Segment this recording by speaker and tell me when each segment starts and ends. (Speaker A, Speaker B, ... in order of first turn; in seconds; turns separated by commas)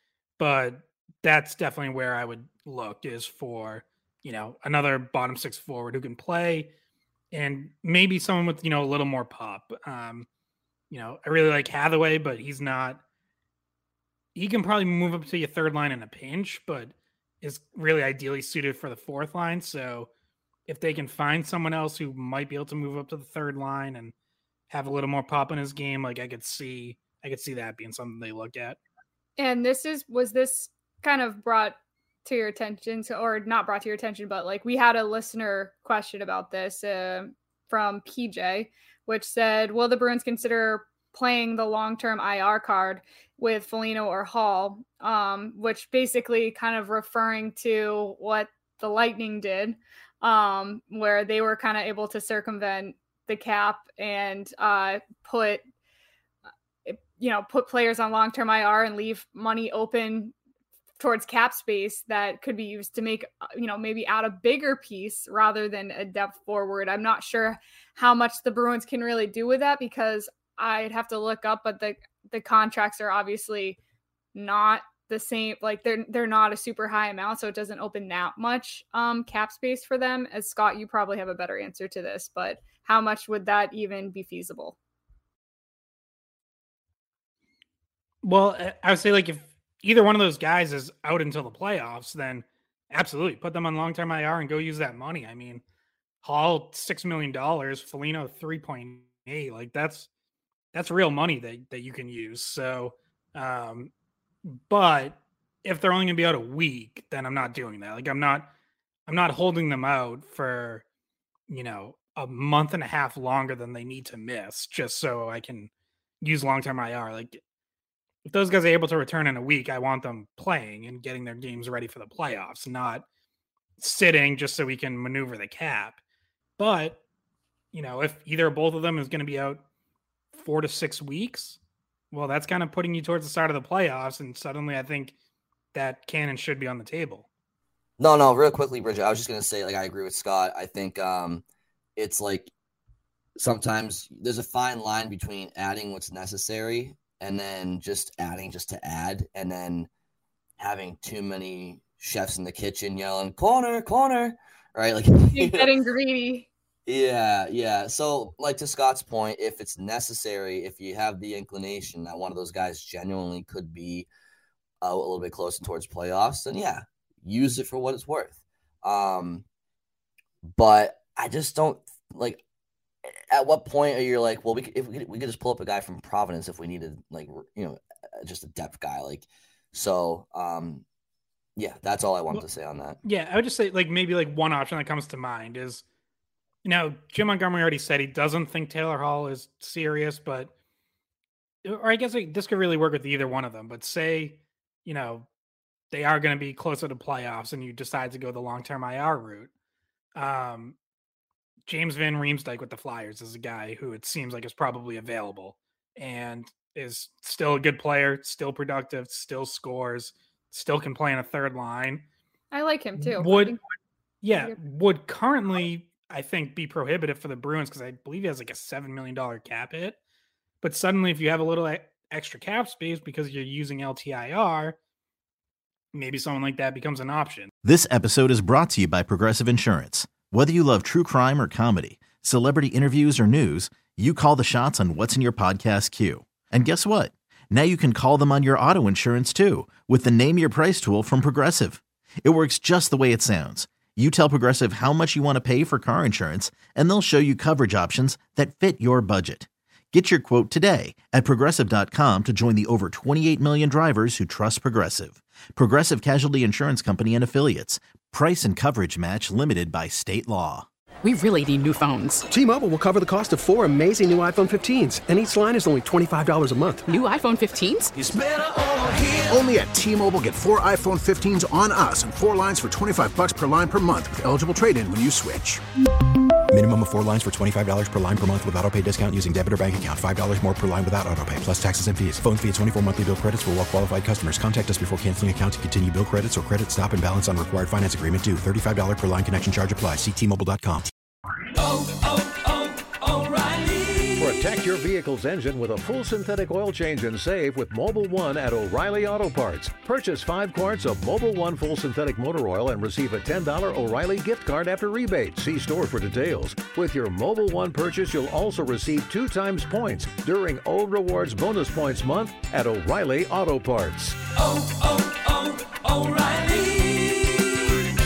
Speaker A: 0.4-6.7, Speaker A: 7.3-10.3, Speaker A: 10.9-13.0, Speaker A: 14.3-20.1, Speaker A: 20.7-24.1, Speaker A: 24.7-28.8, Speaker B: 29.4-55.6, Speaker B: 56.8-60.3, Speaker B: 61.0-73.8, Speaker B: 74.3-84.8, Speaker A: 88.2-95.6, Speaker A: 96.2-100.1, Speaker A: 100.7-103.9, Speaker A: 104.4-108.5, Speaker A: 109.0-110.8, Speaker A: 111.5-117.4, Speaker A: 118.2-123.0, Speaker A: 123.8-126.0, Speaker A: 126.6-127.0, Speaker A: 127.7-129.6, Speaker A: 130.3-131.6, Speaker A: 132.1-135.1, Speaker A: 135.7-137.3, Speaker C: 138.0-141.4, Speaker C: 141.9-142.5, Speaker C: 143.4-149.9, Speaker C: 150.6-155.7, Speaker B: 155.3-156.5, Speaker C: 156.8-164.1, Speaker C: 164.8-169.4, Speaker C: 170.5-172.4, Speaker C: 173.3-180.8, Speaker C: 181.6-183.0, Speaker A: 183.0-185.8, Speaker A: 186.6-190.5, Speaker A: 191.6-195.3, Speaker A: 195.9-199.5, Speaker A: 200.1-200.8, Speaker A: 201.7-212.0, Speaker B: 212.5-213.6, Speaker A: 213.0-213.6, Speaker A: 214.2-220.0, Speaker A: 220.6-224.8, Speaker A: 225.9-227.5, Speaker D: 227.6-260.7, Speaker E: 261.0-262.3, Speaker F: 262.3-266.9, Speaker E: 266.9-267.9, Speaker G: 267.9-275.6, Speaker H: 276.5-290.9, Speaker I: 291.6-294.3, Speaker J: 294.2-314.2, Speaker I: 314.4-317.5